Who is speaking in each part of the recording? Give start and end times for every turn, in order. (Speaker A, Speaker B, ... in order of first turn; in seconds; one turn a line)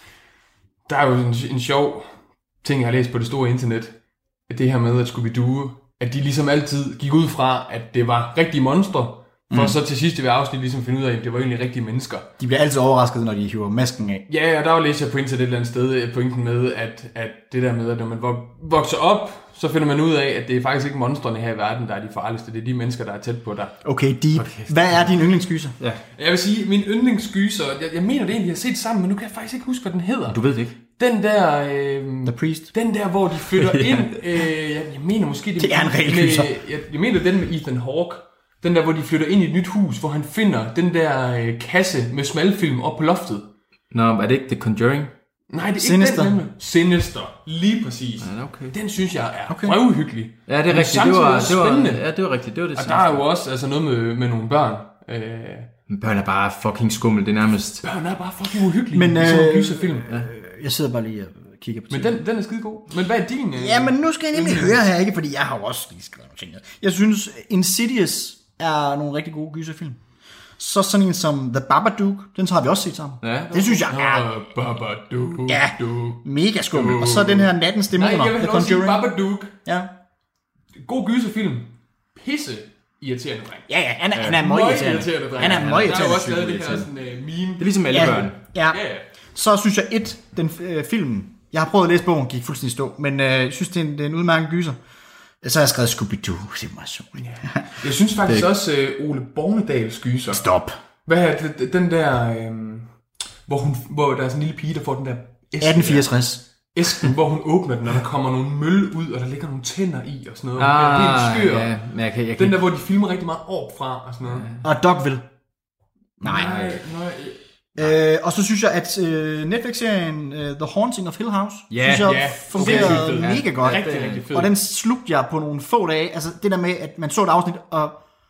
Speaker A: 0.9-2.1
Speaker A: 2.6-3.9
Speaker A: 4.5-12.3
Speaker B: 9.5-9.8
Speaker B: 12.4-14.2
Speaker A: 14.3-23.7
Speaker B: 23.8-25.8
Speaker C: 24.4-25.1
Speaker A: 26.2-30.4
Speaker C: 30.3-30.8
Speaker A: 31.0-43.5
Speaker B: 32.3-32.7
Speaker C: 33.7-34.0
Speaker B: 35.6-36.5
Speaker C: 43.9-45.1
Speaker A: 45.5-52.0
Speaker B: 45.8-46.4
Speaker C: 48.2-48.8
Speaker B: 49.5-49.8
Speaker C: 50.5-53.2
Speaker A: 52.8-55.7
Speaker C: 55.9-57.9
Speaker A: 57.8-60.1
Speaker B: 58.9-62.2
Speaker A: 61.9-64.9
Speaker B: 63.6-70.0
Speaker B: 70.6-74.3
Speaker C: 73.2-73.8
Speaker A: 73.8-79.6
Speaker B: 75.5-79.1
Speaker B: 79.7-79.9
Speaker A: 80.8-89.0
Speaker B: 83.7-86.3
Speaker C: 85.4-86.9
Speaker C: 87.6-88.4
Speaker B: 87.9-88.8
Speaker B: 89.3-94.8
Speaker B: 95.4-97.6
Speaker A: 97.2-100.5
Speaker B: 100.3-100.8
Speaker A: 101.1-102.9
Speaker A: 103.5-106.1
Speaker B: 105.6-106.4
Speaker A: 106.7-111.7
Speaker C: 110.6-112.6
Speaker A: 112.4-114.5
Speaker C: 114.2-114.6
Speaker B: 114.6-115.3
Speaker B: 116.2-116.8
Speaker A: 116.3-117.4
Speaker C: 116.3-116.8
Speaker B: 117.8-128.0
Speaker C: 121.7-124.3
Speaker A: 121.9-124.5